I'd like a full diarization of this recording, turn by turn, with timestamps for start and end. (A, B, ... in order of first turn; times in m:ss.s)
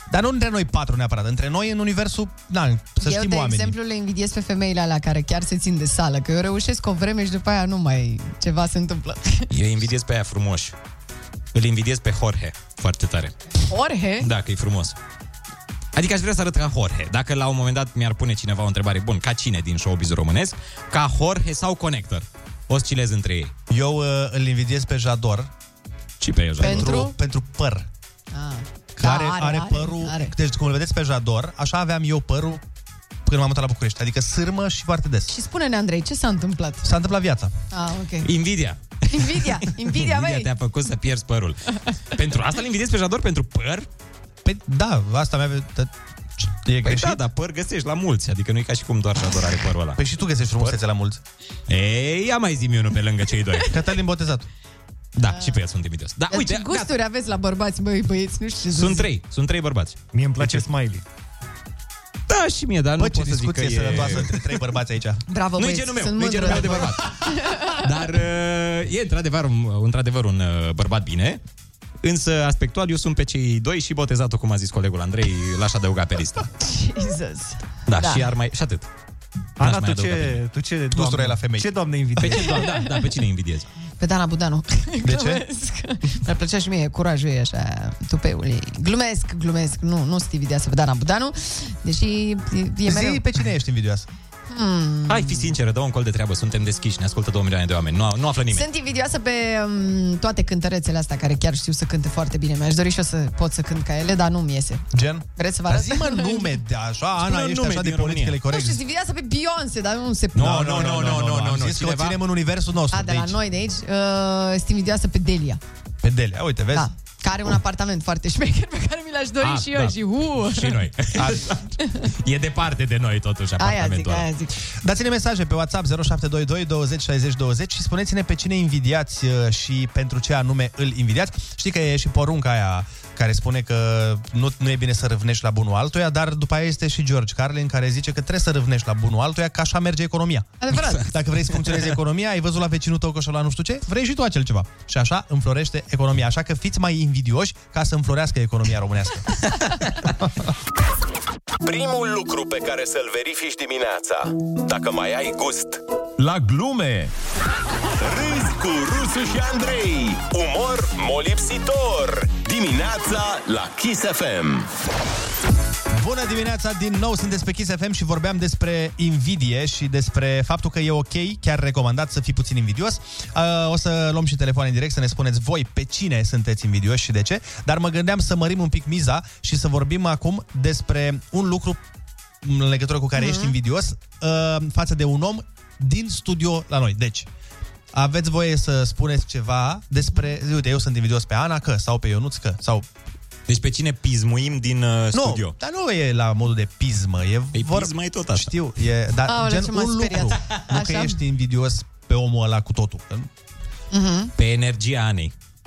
0:00.1-0:03.8 A
0:03.0-0:09.5 B
0:09.5-0:10.8 C
0:11.5-0:13.3 C
0:13.7-0:14.3 B
0:14.2-0:15.0 C
0:16.0-0:23.5 C
0:23.7-0:25.5 A
0:26.2-0:27.1 C
0:26.6-0:27.1 B
0:26.6-0:27.9 A
0:28.3-0:30.3 B
0:29.0-0:32.6 A
0:33.3-0:35.3 A
0:35.3-0:36.9 B
0:36.8-0:37.5 A
0:37.7-0:38.3 B
0:38.2-0:43.9 C
0:39.1-0:40.5 B
0:44.4-0:47.2 A
0:46.8-0:50.0 C
0:50.0-0:51.2 A
0:51.7-0:53.7 C
0:53.7-0:54.5 A
0:55.2-0:56.9 C
0:55.2-0:55.6 B
0:56.3-0:59.1 B
0:58.7-1:00.7 C
1:00.1-1:01.0 D
1:02.3-1:04.4 C
1:03.0-1:05.2 A
1:05.3-1:07.9 B
1:05.6-1:11.4 C
1:12.0-1:16.5 C
1:16.6-1:18.3 B
1:17.9-1:18.9 C
1:19.6-1:22.7 D
1:19.6-1:20.4 C
1:20.9-1:21.7 A
1:22.2-1:23.7 C
1:22.6-1:23.0 B
1:24.0-1:33.2 B
1:25.0-1:25.4 A
1:32.8-1:34.1 A
1:34.5-1:35.5 B
1:35.1-1:38.7 C
1:38.5-1:44.8 B
1:44.9-1:48.8 A
1:45.4-1:46.5 B
1:47.2-1:48.4 C
1:48.5-1:50.6 B
1:50.4-1:52.2 C
1:50.4-1:53.4 A
1:52.9-1:55.6 B
1:56.0-1:56.9 A
1:56.7-2:00.8 B
1:59.4-2:04.3 C
2:01.2-2:01.5 A
2:03.6-2:04.6 B
2:04.8-2:29.5 A
2:20.6-2:21.1 B
2:31.6-2:35.8 E
2:38.0-2:44.7 E
2:45.9-3:01.8 A
3:02.4-3:07.3 A
3:03.2-3:03.5 B
3:07.9-3:12.9 A
3:13.5-3:15.5 C
3:15.1-3:23.3 A
3:17.6-3:18.5 C
3:19.3-3:21.2 B
3:23.9-3:24.3 B
3:24.4-3:25.3 C